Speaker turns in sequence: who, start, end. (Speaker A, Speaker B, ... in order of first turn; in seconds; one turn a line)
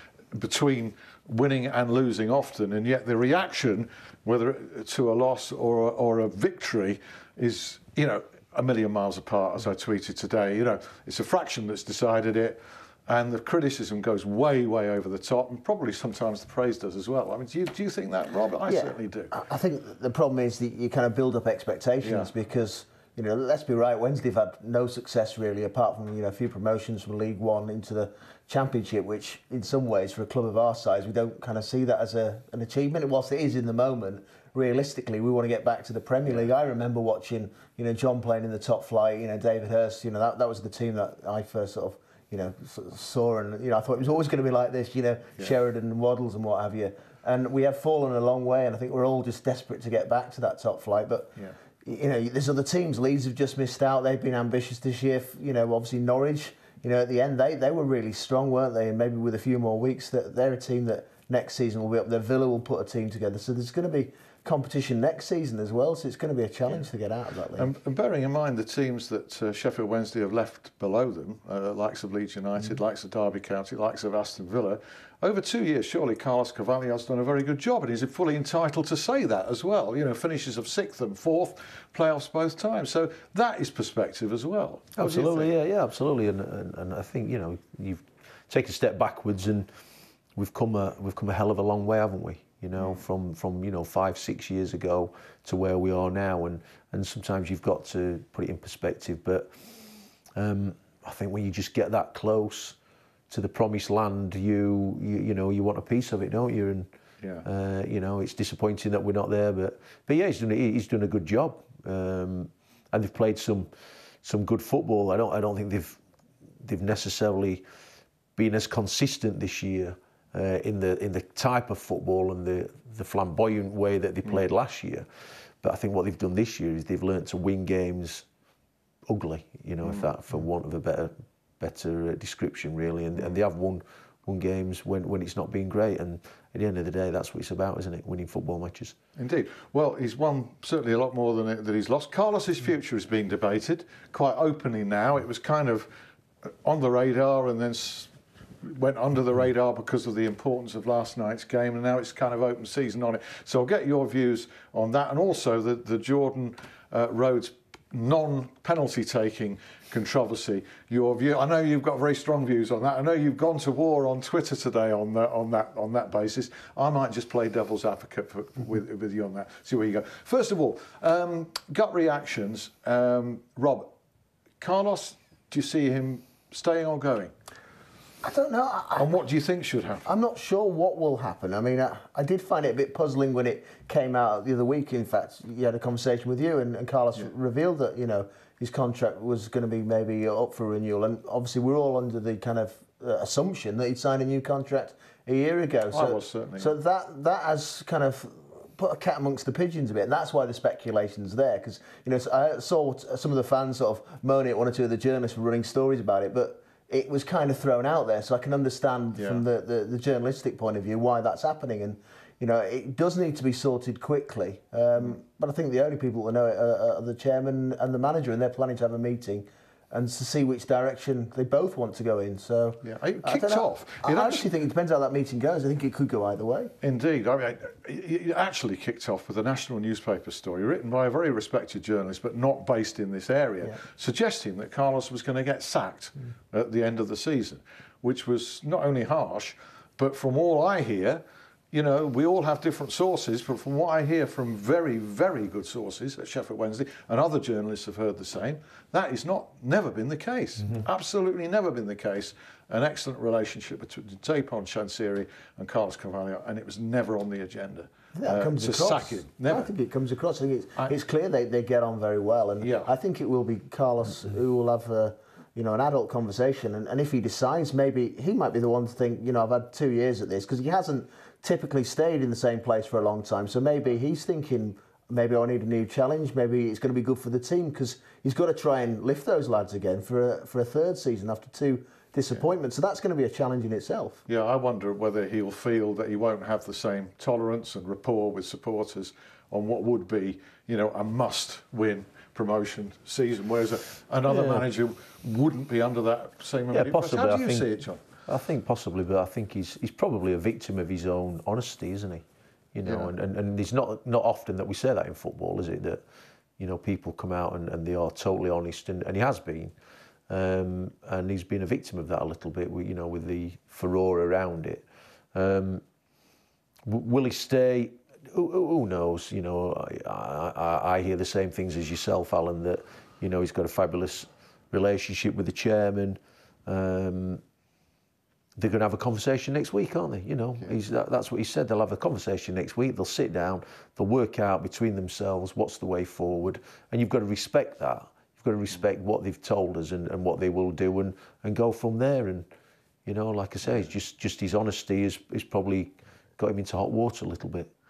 Speaker A: 0.3-19.3
Speaker B: 18.6-67.6
Speaker A: 22.0-22.3
Speaker A: 67.5-85.5
Speaker C: 85.0-89.7
Speaker C: 90.3-99.6
Speaker A: 92.8-93.0
Speaker C: 100.3-102.8
Speaker C: 103.3-106.9
Speaker A: 107.2-107.5
Speaker C: 107.4-113.7
Speaker C: 114.2-116.0
Speaker C: 116.6-117.6
Speaker C: 118.3-125.1
Speaker A: 124.2-124.5
Speaker C: 125.6-128.2
Speaker C: 129.1-138.9
Speaker A: 129.8-130.2
Speaker A: 133.1-133.4
Speaker A: 139.2-145.9
Speaker A: 146.6-148.1
Speaker A: 148.6-173.9
Speaker A: 174.6-177.3
Speaker B: 178.2-179.1
Speaker A: 178.9-180.1
Speaker B: 180.0-226.7
Speaker A: 195.9-196.7
Speaker A: 209.1-209.4
Speaker A: 222.8-224.5
Speaker A: 226.8-259.7
Speaker B: 258.1-284.2
Speaker A: 262.6-262.9
Speaker A: 284.3-298.0
Speaker C: 294.3-294.6
Speaker C: 296.8-297.7
Speaker C: 298.2-306.0
Speaker A: 302.8-303.1
Speaker C: 306.6-309.7
Speaker C: 310.3-315.8
Speaker C: 316.8-327.4
Speaker C: 328.6-342.5
Speaker C: 343.0-347.7
Speaker A: 343.6-343.9